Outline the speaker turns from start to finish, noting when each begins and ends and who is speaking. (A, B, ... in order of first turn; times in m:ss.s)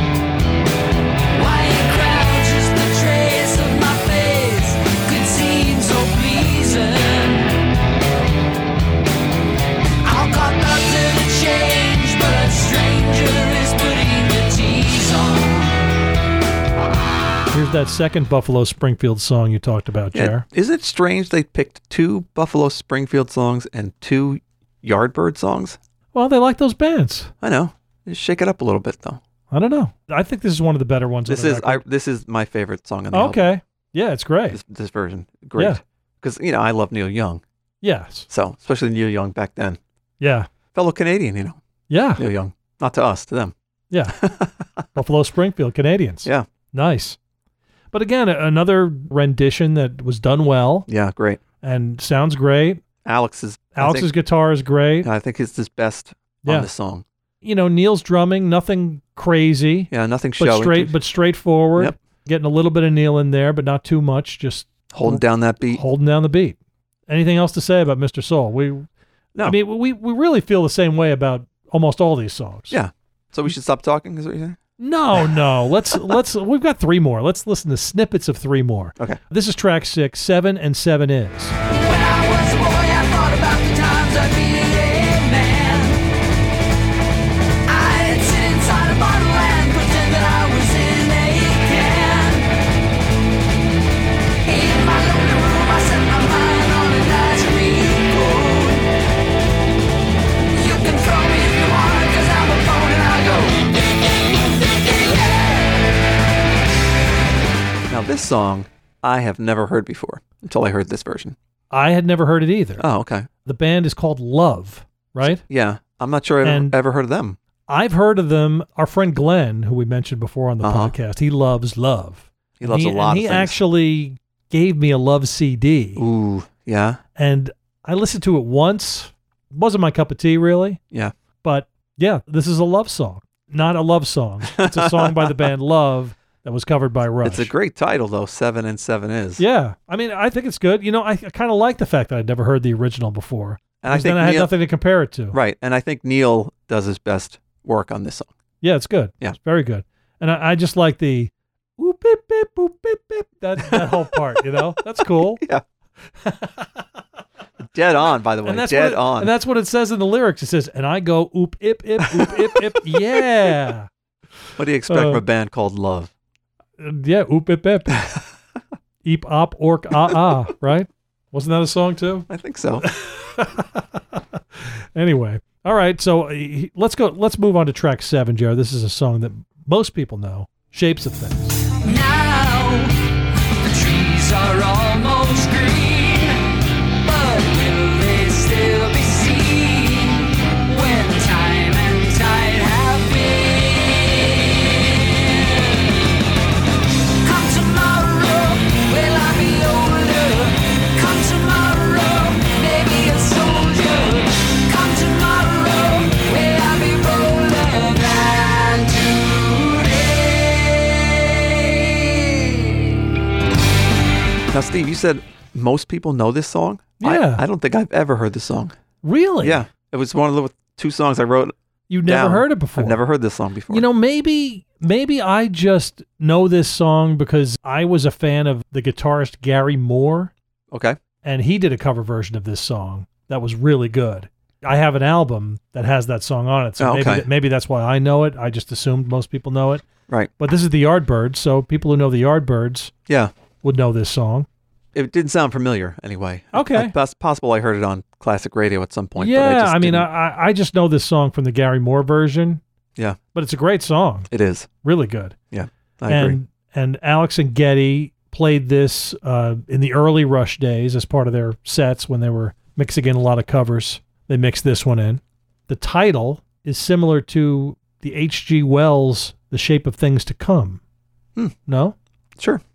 0:01.3-0:07.6 A
0:10.0-0:15.8 A
0:17.5-0:20.4 B
0:20.1-0:25.8 C
0:26.1-0:27.3 B
0:27.4-0:29.2 C
0:29.5-0:31.8 B
0:31.3-0:33.5 C
0:33.1-0:34.6 B
0:34.5-0:37.4 C
0:37.8-0:38.3 B
0:38.3-0:39.8 C
0:40.2-0:40.5 B
0:40.7-0:41.6 C
0:41.9-0:42.2 B
0:42.2-0:43.5 C
0:43.9-0:44.2 B
0:44.2-0:44.8 C
0:44.9-0:47.2 B
0:47.9-0:50.9 B
0:50.9-0:51.4 C
0:51.6-0:52.8 B
0:53.0-0:54.1 C
0:53.8-0:55.1 B
0:55.0-0:57.0 C
0:57.4-1:06.6 B
0:59.9-1:01.0 C
1:04.9-1:05.8 C
1:07.1-1:08.9 B
1:09.4-1:12.8 B
1:12.7-1:14.6 C
1:14.8-1:21.6 B
1:21.7-1:26.0 A
1:27.7-1:32.5 A
1:34.4-1:38.9 A
1:40.5-1:45.9 A
1:47.9-1:51.4 C
1:51.7-1:52.8 B
1:52.8-1:53.3 C
1:53.4-1:55.4 B
1:55.2-1:57.4 C
1:56.4-1:56.8 B
1:57.7-2:06.0 B
2:00.6-2:01.0 C
2:02.6-2:03.6 C
2:06.0-2:07.0 C
2:07.2-2:10.8 B
2:11.4-2:17.5 B
2:14.5-2:15.5 C
2:17.2-2:19.4 C
2:19.4-2:25.4 B
2:23.8-2:24.5 C
2:25.3-2:28.3 C
2:28.6-2:35.4 B
2:33.6-2:34.2 C
2:35.2-2:35.6 C
2:36.2-2:36.9 B
2:37.7-2:39.3 C
2:38.4-2:43.9 B
2:42.0-2:43.2 C
2:44.6-2:46.1 C
2:44.9-2:45.2 B
2:46.8-2:48.1 B
2:49.0-2:52.3 B
2:52.3-2:52.9 C
2:52.8-3:01.6 B
3:01.8-3:02.9 A
3:03.6-3:06.4 A
3:07.0-3:16.0 A
3:17.2-3:33.0 A
3:34.5-3:38.7 C
3:37.0-3:37.4 B
3:39.0-3:39.6 B
3:39.4-3:41.5 C
3:41.9-3:43.0 B
3:42.0-3:43.8 C
3:43.7-3:50.3 B
3:50.7-3:51.0 C
3:51.2-3:59.9 B
3:56.8-3:57.3 C
4:00.4-4:02.9 B
4:03.1-4:03.3 C
4:03.6-4:04.5 B
4:04.9-4:10.1 C
4:06.5-4:06.9 B
4:09.2-4:12.6 B
4:13.3-4:14.3 B
4:14.3-4:14.7 C
4:14.8-4:15.4 B
4:15.5-4:16.4 C
4:16.1-4:30.8 B
4:31.7-4:32.0 B